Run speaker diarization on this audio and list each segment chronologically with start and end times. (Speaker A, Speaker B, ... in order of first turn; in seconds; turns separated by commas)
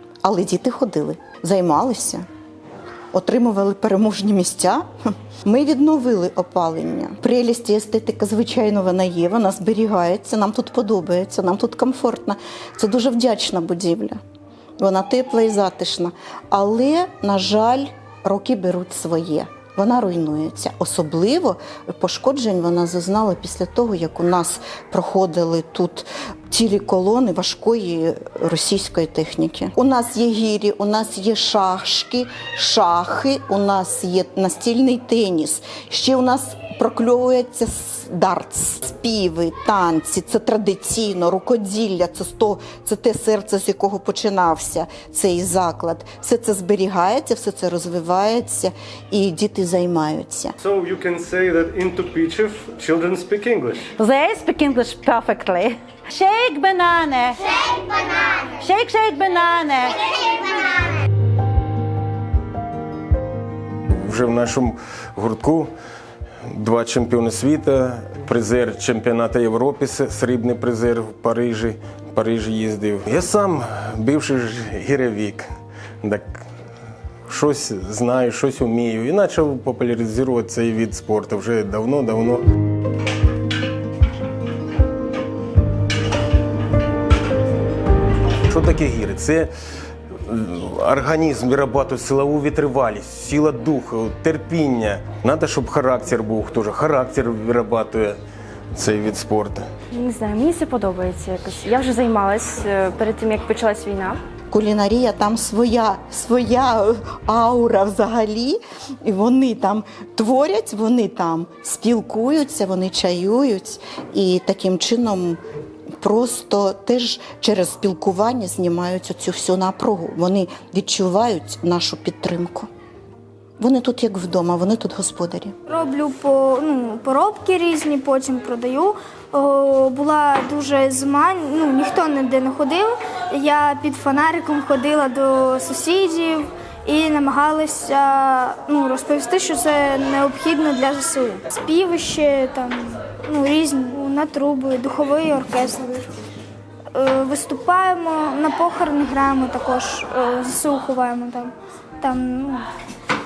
Speaker A: 0.2-2.2, Speaker A: 3.1-4.9, Speaker A: 5.5-14.2, Speaker A: 14.8-50.6, Speaker B: 50.6-53.9, Speaker C: 54.0-57.5, Speaker C: 58.5-60.0, Speaker D: 64.0-65.7, Speaker D: 66.5-75.5, Speaker D: 76.0-76.4, Speaker D: 77.3-82.5, Speaker D: 88.5-89.5, Speaker D: 90.3-98.2, Speaker D: 98.8-99.7, Speaker E: 99.9-104.2, Speaker A: 104.5-115.4, Speaker A: 116.0-122.7, Speaker A: 123.6-125.5, Speaker F: 125.7-146.1, Speaker F: 146.9-152.7